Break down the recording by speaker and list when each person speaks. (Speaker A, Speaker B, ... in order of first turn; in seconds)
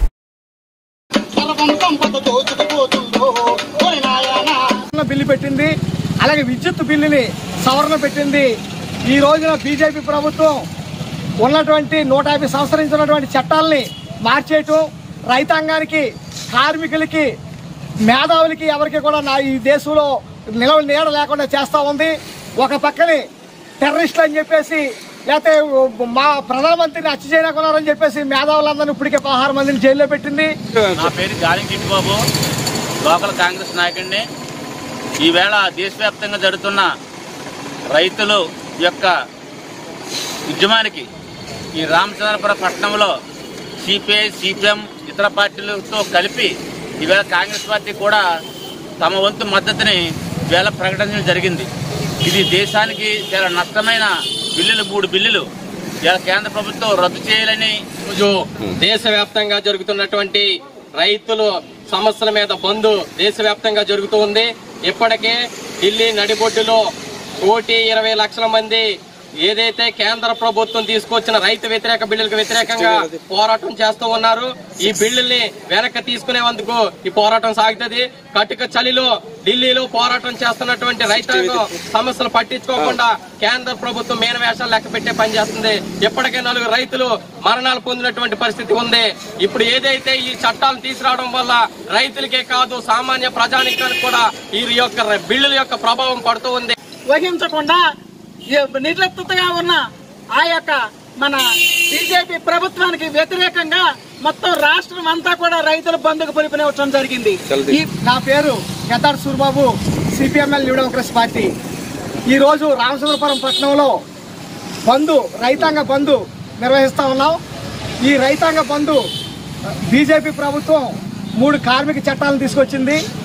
Speaker A: 1.4-2.8, 3.5-4.6, 97.1-97.8, 98.5-99.8, 100.3-107.9
Speaker B: 4.9-5.7, 6.2-8.5, 9.1-10.6, 11.4-17.3, 18.1-23.2, 23.8-30.5, 108.0-111.5, 112.3-113.9, 114.9-117.4, 118.0-119.0, 119.9-123.0
Speaker C: 30.9-32.2, 33.0-34.2, 35.2-36.9, 37.9-39.1, 40.5-41.1, 41.8-43.1, 43.8-48.2, 49.0-51.7, 52.2-55.4, 56.0-57.8
Speaker D: 58.1-60.5, 61.0-66.8, 67.4-68.8, 69.5-96.8